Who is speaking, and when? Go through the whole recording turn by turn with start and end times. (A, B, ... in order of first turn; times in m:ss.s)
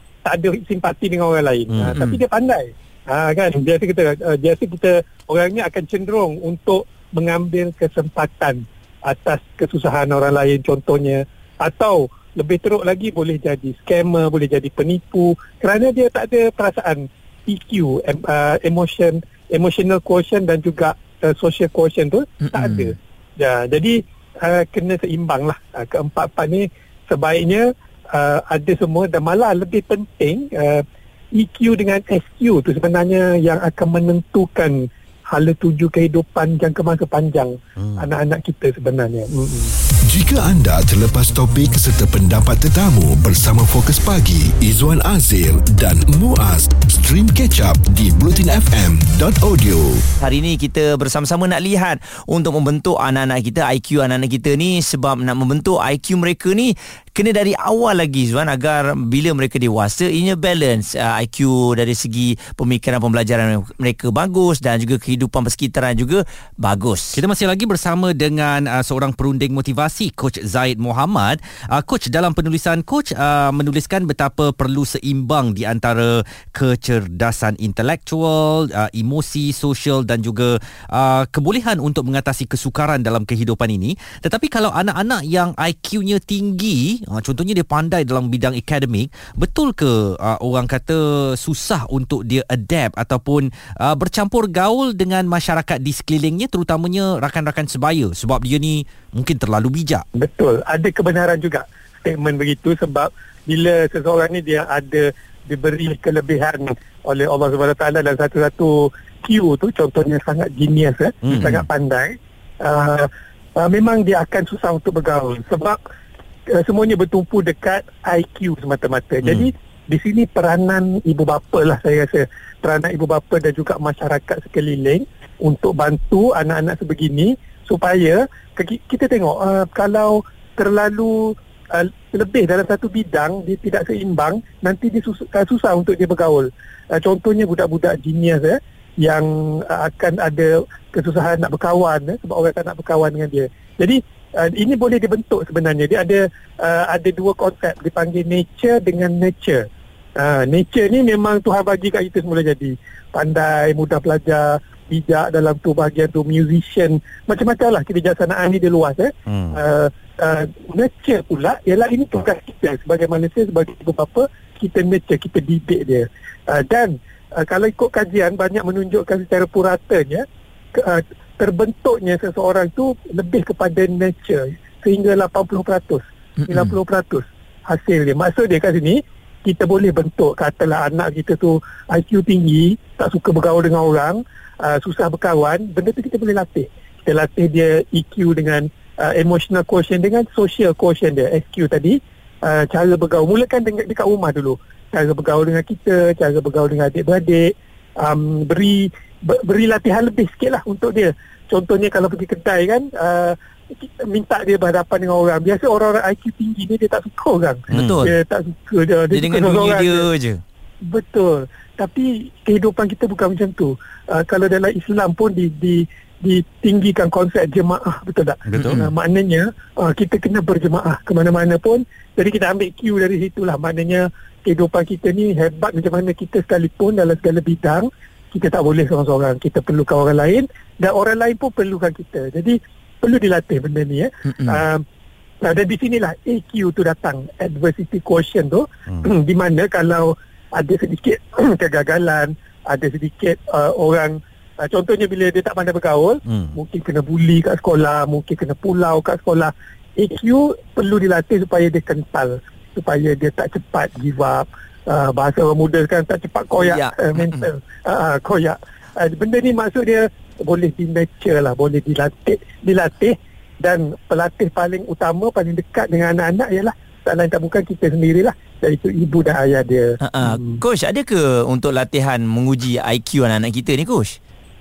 0:00.2-0:30.8 A
0:01.7-0:02.2 B
0:22.4-0:22.9 C
0:31.4-0:39.7 A
0:40.1-0:50.0 D
0:50.2-1:07.2 C
1:07.1-1:40.0 B
1:40.2-1:55.8 A
1:51.2-1:51.6 B
1:56.5-2:29.6 A
1:59.2-1:59.5 B
2:30.2-2:50.2 A
2:39.3-2:39.6 B
2:50.8-3:30.1 A
2:56.4-2:56.7 C
3:27.7-3:28.1 C
3:27.7-3:28.0 B
3:29.1-3:30.4 C
3:30.8-3:54.8 A
3:38.5-3:38.9 B
3:38.6-3:38.9 C
3:55.4-4:30.6 A
4:06.3-4:06.5 B
4:16.6-4:17.5 C
4:30.0-4:34.2 C